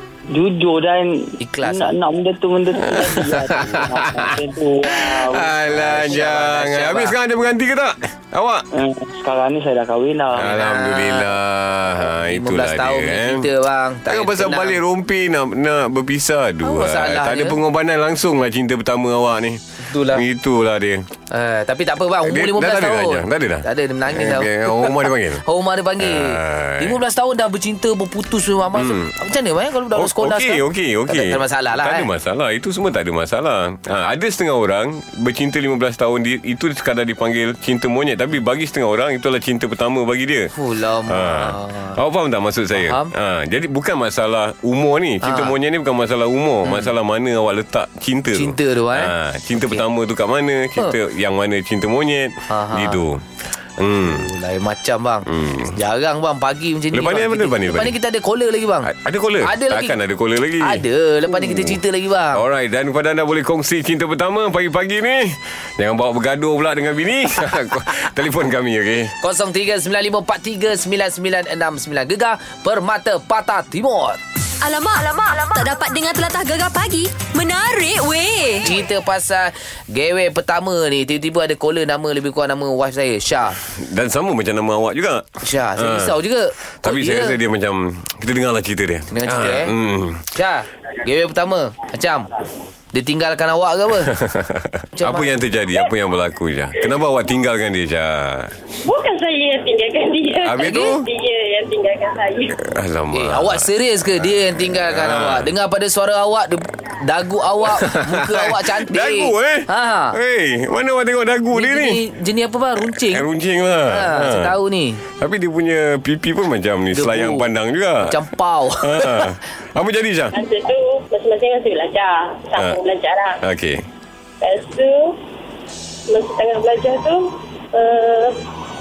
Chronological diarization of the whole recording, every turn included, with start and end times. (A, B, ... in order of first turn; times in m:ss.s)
0:00.3-0:06.1 A
0:01.4-0:01.9 B
0:02.9-0:04.3 C
0:05.0-0:08.7 C
0:05.7-0:07.2 B
0:08.7-0:10.5 A
0:10.3-0:13.5 C
0:10.4-0:11.3 B
0:12.1-0:14.8 B
0:14.1-0:21.0 C
0:16.6-0:17.6 B
0:19.8-0:20.2 B
0:21.3-0:32.1 B
0:22.2-0:25.4 C
0:26.0-0:27.0 C
0:28.8-0:29.1 C
0:29.9-0:40.5 C
0:40.5-0:42.0 B
0:41.1-0:53.2 C
0:42.7-0:43.1 B
0:45.2-0:45.6 B
0:46.6-0:46.9 B
0:48.3-0:49.8 B
0:52.5-0:53.0 B
0:53.8-0:54.3 C
0:54.0-0:58.9 B
0:55.3-0:55.8 C
0:56.9-0:58.0 C
0:58.8-1:01.8 C
0:59.4-1:00.0 B
1:00.6-1:02.4 B
1:02.3-1:09.1 C
1:09.2-1:14.2 B
1:14.6-1:18.7 D
1:18.6-1:23.6 B
1:23.7-1:26.2 C
1:25.4-1:27.4 B
1:26.8-1:30.3 C
1:29.1-1:29.7 B
1:30.3-1:32.3 B
1:32.9-1:34.2 B
1:34.0-1:38.6 C
1:35.0-1:35.3 B
1:38.8-1:42.6 E
1:40.4-1:41.1 C
1:42.6-1:43.7 C
1:43.1-1:50.2 B
1:44.7-1:45.5 C
1:47.6-1:52.0 C
1:51.5-1:53.3 B
1:52.8-1:54.6 C
1:53.8-1:55.0 B
1:55.2-1:58.2 C
1:56.9-1:57.5 B
1:58.1-1:59.4 B
1:58.8-2:00.4 C
2:00.3-2:03.4 E
2:03.4-2:03.8 C
2:04.4-2:05.2 E
2:06.1-2:08.4 E